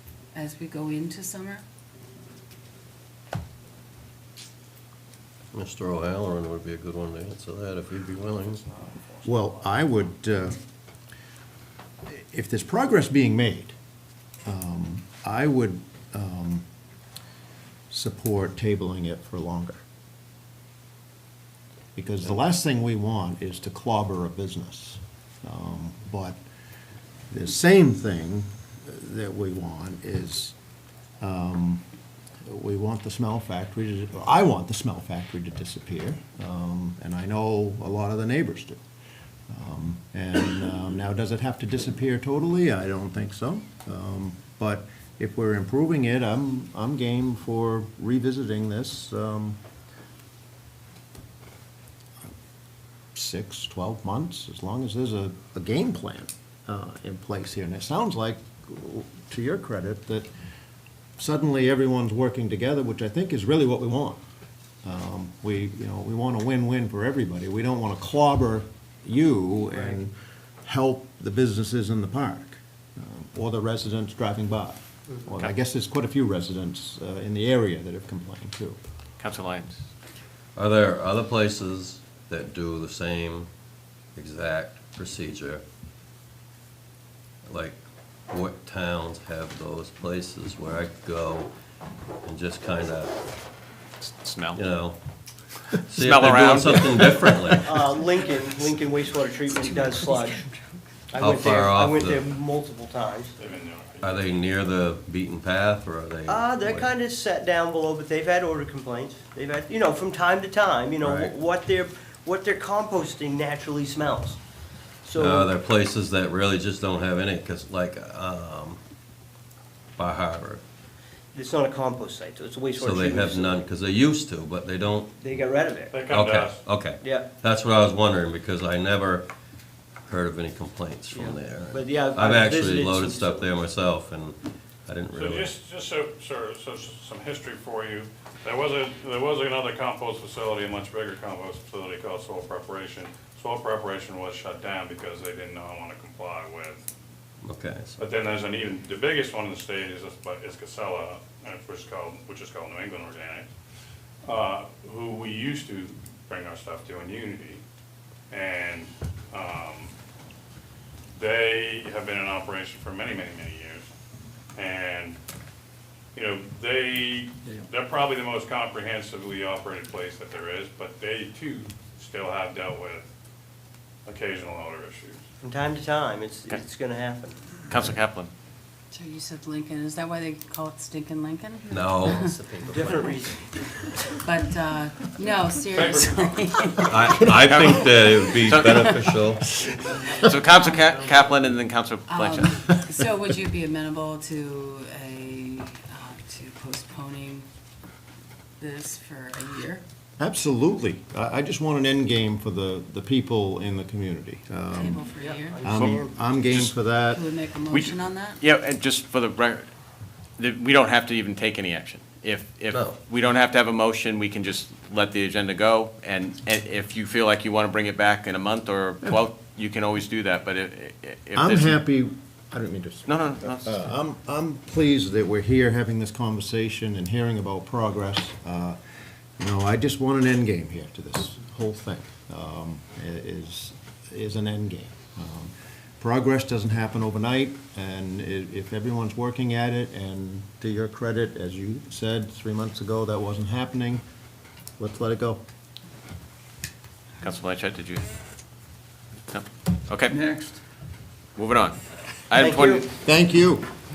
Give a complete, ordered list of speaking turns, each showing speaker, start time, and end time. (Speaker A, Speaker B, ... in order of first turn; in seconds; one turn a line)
Speaker A: 0.3-1.6
Speaker B: 5.5-8.6
Speaker C: 9.2-10.6
Speaker C: 12.1-13.7
Speaker C: 14.4-16.6
Speaker C: 17.9-19.8
Speaker C: 21.9-26.4
Speaker C: 27.3-30.5
Speaker C: 31.2-31.8
Speaker C: 32.4-38.8
Speaker C: 39.5-49.6
Speaker C: 53.1-60.3
Speaker C: 61.2-64.2
Speaker C: 64.8-78.8
Speaker D: 79.2-79.8
Speaker B: 80.5-83.5
Speaker B: 84.1-85.6
Speaker B: 87.5-91.5
Speaker B: 92.2-93.1
Speaker D: 94.0-94.6
Speaker B: 94.5-95.0
Speaker B: 95.9-97.8
Speaker D: 95.9-97.5
Speaker E: 97.5-100.4
Speaker A: 99.5-100.8
Speaker E: 101.1-103.3
Speaker B: 101.2-102.3
Speaker F: 103.4-104.3
Speaker B: 104.0-106.9
Speaker E: 106.2-114.4
Speaker B: 111.0-111.3
Speaker E: 115.0-115.5
Speaker B: 115.2-118.8
Speaker B: 120.0-120.6
Speaker E: 121.3-123.6
Speaker B: 122.7-125.1
Speaker E: 125.2-126.0
Speaker F: 125.9-126.7
Speaker B: 126.1-129.3
Speaker E: 127.0-127.3
Speaker B: 130.1-135.6
Speaker E: 131.1-133.6
Speaker F: 135.2-146.9
Speaker B: 147.4-148.0
Speaker F: 148.0-153.5
Speaker F: 154.2-157.6
Speaker F: 158.3-159.9
Speaker F: 161.1-163.9
Speaker F: 164.5-165.2
Speaker F: 166.1-173.1
Speaker F: 174.0-175.2
Speaker E: 175.4-177.3
Speaker D: 177.7-178.3
Speaker A: 178.9-187.3
Speaker B: 181.7-183.0
Speaker E: 182.6-183.4
Speaker B: 186.9-189.7
Speaker D: 187.3-187.9
Speaker D: 188.4-189.0
Speaker A: 189.9-190.9
Speaker D: 190.2-192.9
Speaker A: 192.1-197.4
Speaker A: 198.6-199.8
Speaker C: 200.2-205.0
Speaker A: 204.7-205.7
Speaker E: 205.2-206.3
Speaker C: 205.6-207.2
Speaker A: 207.1-208.4
Speaker D: 207.7-209.7
Speaker D: 210.4-221.8
Speaker B: 212.7-213.0
Speaker C: 221.3-228.8
Speaker D: 223.1-223.9
Speaker C: 229.4-244.0
Speaker C: 244.8-245.4
Speaker D: 247.2-248.1
Speaker D: 249.3-250.3
Speaker D: 251.3-251.8
Speaker D: 252.3-252.9
Speaker E: 252.3-252.8
Speaker C: 253.0-253.7